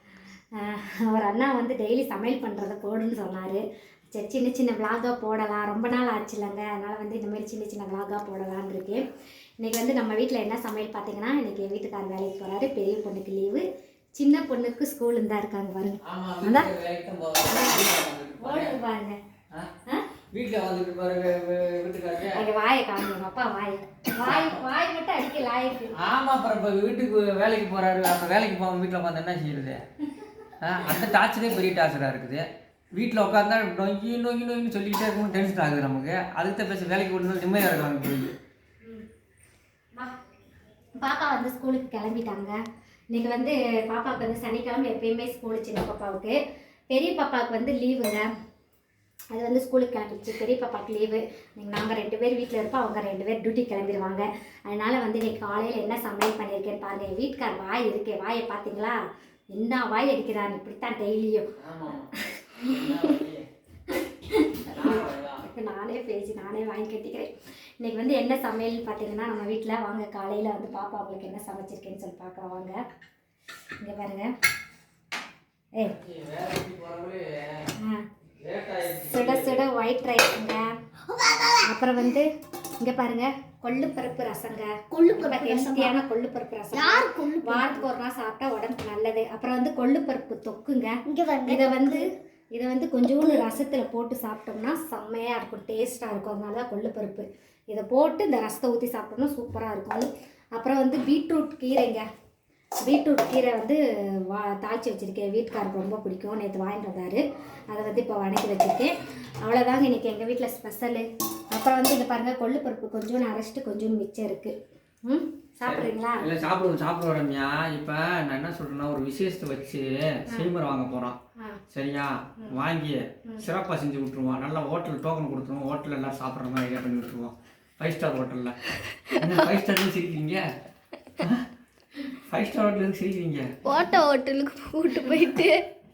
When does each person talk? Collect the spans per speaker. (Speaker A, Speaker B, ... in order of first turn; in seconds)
Speaker A: 0.6-3.6, 4.1-9.0, 9.6-13.6, 14.2-16.7, 17.5-17.9, 18.4-19.2, 22.3-25.9, 41.0-42.6, 43.1-46.4, 46.9-48.3, 49.3-59.0, 59.5-61.5, 62.1-63.1, 63.9-67.3, 67.8-72.8, 73.8-74.3, 77.8-78.0, 79.1-80.7, 81.6-82.3, 82.8-102.0, 102.8-116.2
Speaker B: 16.0-18.8, 20.3-22.4, 24.2-24.6, 25.9-29.8, 30.6-38.3, 61.6-63.5, 64.7-65.5, 75.8-77.7, 78.4-79.6, 115.6-121.2, 121.7-128.6, 129.2-130.5, 131.2-131.4, 132.3-133.6
Speaker C: 81.1-81.6, 84.9-86.0, 86.7-87.9, 91.1-92.0, 129.1-129.4, 133.6-135.6